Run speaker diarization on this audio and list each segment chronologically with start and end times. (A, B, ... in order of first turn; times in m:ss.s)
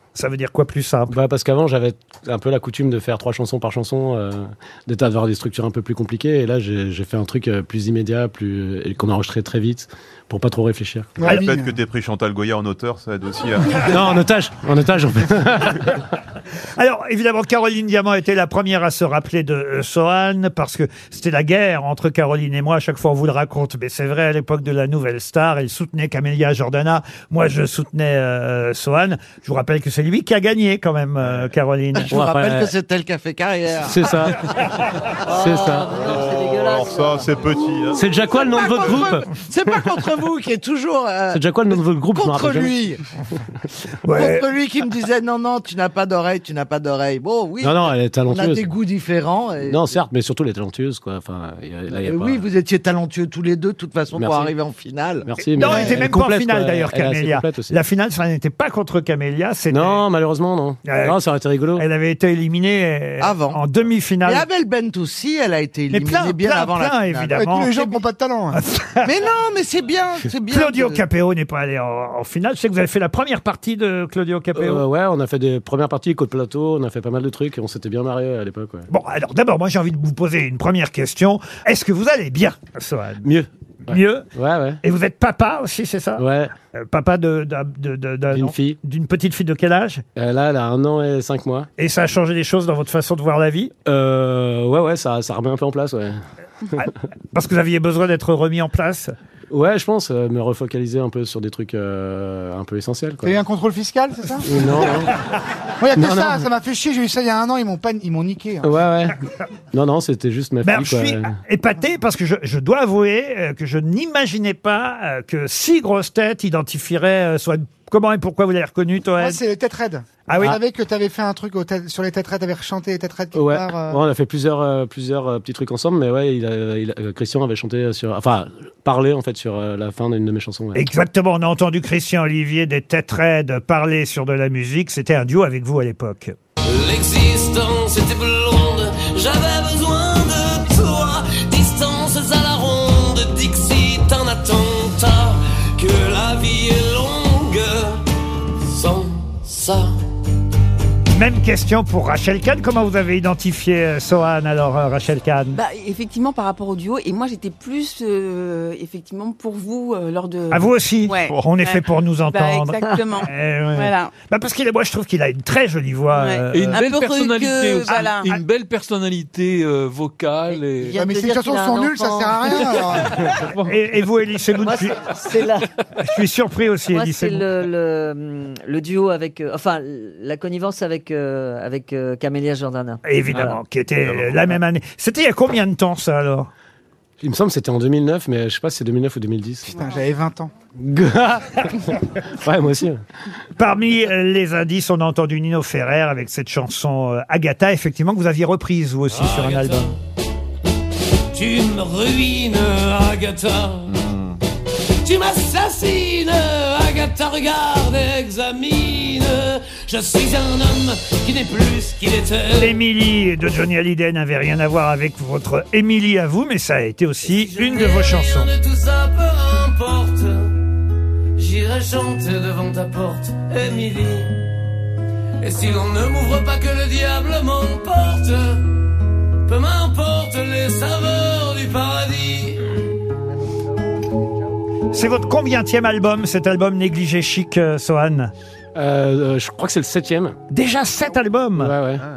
0:00.1-0:01.2 A
0:01.1-0:11.2 B
0:11.2-0:11.7 C
0:11.2-0:14.0 D
0:13.8-0:16.0 B
0:16.8-0:32.1 A
0:32.1-0:32.7 B
0:32.1-0:34.1 E
0:33.8-0:34.5 B
0:35.2-0:35.6 E
0:35.3-0:35.9 B
0:35.4-0:37.8 F
0:35.9-0:38.1 D
0:38.0-0:39.3 B
0:38.3-0:43.0 E
0:41.3-0:42.8 B
0:44.0-0:44.4 A
0:44.1-0:49.9 E
0:47.6-0:48.7 B
0:49.7-0:52.4 B
0:51.9-0:55.3 E
0:54.2-0:54.5 B
0:55.2-0:57.8 B
0:55.6-1:00.0 A
0:55.6-0:56.0 C
0:59.7-1:01.8 B
1:00.8-1:01.2 A
1:01.7-1:04.4 A
1:03.2-1:03.6 E
1:04.2-1:07.4 E
1:05.9-1:08.0 A
1:07.3-1:08.6 C
1:08.6-1:09.1 A
1:09.0-1:11.0 E
1:10.5-1:14.8 A
1:14.5-1:18.9 B
1:18.9-1:23.3 A
1:23.2-1:24.8 B
1:23.9-1:24.3 A
1:24.8-1:30.0 A
1:26.2-1:26.5 B
1:28.3-1:28.8 B
1:30.2-1:31.7 B
1:31.8-1:33.7 A
1:33.8-1:36.2 B
1:36.8-1:39.1 A
1:39.5-1:43.3 B
1:43.2-1:44.9 C
1:44.4-1:45.1 B
1:45.8-1:48.7 C
1:45.9-1:46.5 B
1:48.6-1:49.2 B
1:49.7-1:51.4 B
1:50.6-1:59.4 A
1:59.2-2:04.0 C
2:00.3-2:00.6 A
2:03.3-2:10.8 B
2:10.8-2:16.4 A
2:16.6-2:28.0 G
2:28.6-2:30.0 G
2:31.1-2:35.6 A
2:35.5-2:44.1 H
2:40.5-2:46.8 A
2:46.1-2:48.3 H
2:46.5-2:51.0 I
2:50.8-2:53.6 F
2:50.9-2:53.2 C
2:53.6-2:55.1 A
2:54.6-2:55.7 F
2:56.0-2:57.4 A
2:56.9-3:03.6 F
3:03.0-3:06.5 A
3:07.2-3:09.8 B
3:09.7-3:10.5 C
3:10.8-3:13.0 B
3:13.6-3:19.9 A
3:19.1-3:20.0 G
3:21.3-3:23.9 G
3:23.9-3:24.4 D
3:25.0-3:32.7 G
3:32.6-3:38.5 A
3:37.2-3:40.6 G
3:41.4-3:44.4 G
3:45.4-3:48.7 G
3:49.4-3:52.7 G
3:54.9-3:58.3 A
3:58.7-4:00.4 B
4:00.5-4:01.7 A
4:01.6-4:02.0 B